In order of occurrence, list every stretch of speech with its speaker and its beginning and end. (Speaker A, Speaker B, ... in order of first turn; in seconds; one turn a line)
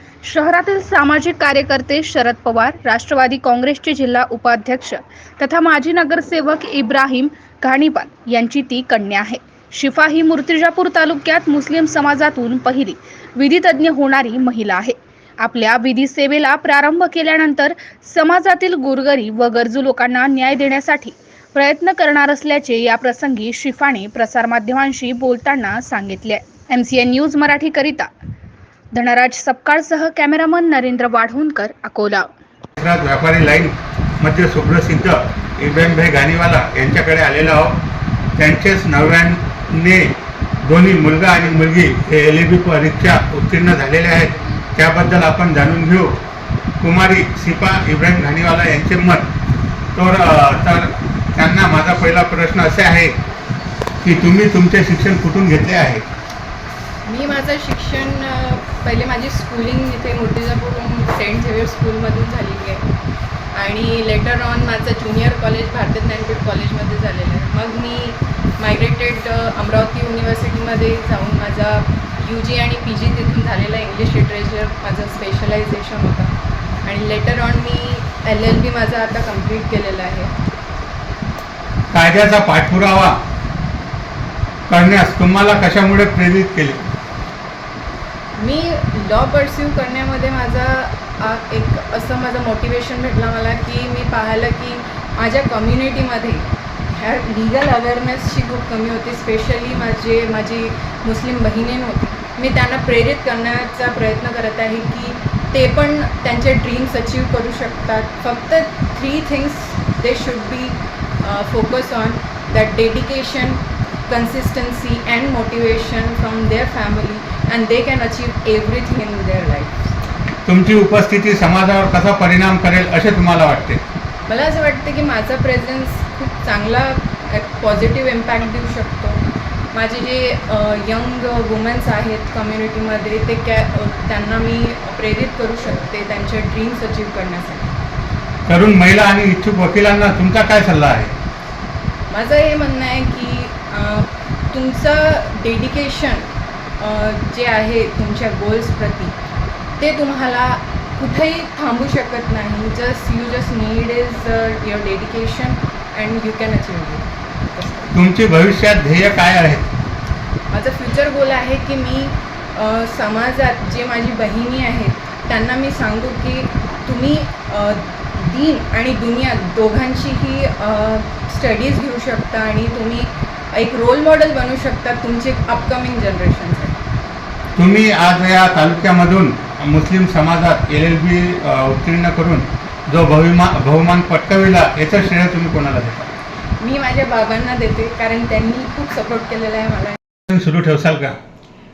Speaker A: 0.2-28.1
Speaker A: 28.9-32.3
Speaker B: 32.8-37.8
Speaker B: 38.4-46.2
Speaker B: 46.8-49.3
Speaker B: 50.0-53.2
Speaker B: 54.0-56.0
Speaker C: 57.1-62.9
Speaker C: 63.5-76.3
Speaker C: 76.8-80.3
Speaker B: 81.9-83.2
Speaker B: 84.7-86.8
Speaker C: 88.4-120.0
Speaker B: 120.5-123.8
Speaker C: 124.3-137.7
Speaker B: 138.5-141.2
Speaker C: 142.1-146.3
Speaker C: 146.8-149.2
Speaker C: 149.8-157.9
Speaker B: 157.9-159.7
Speaker C: 160.5-176.8
Speaker B: 177.6-186.0
Speaker C: 186.6-190.0
Speaker B: 190.3-191.2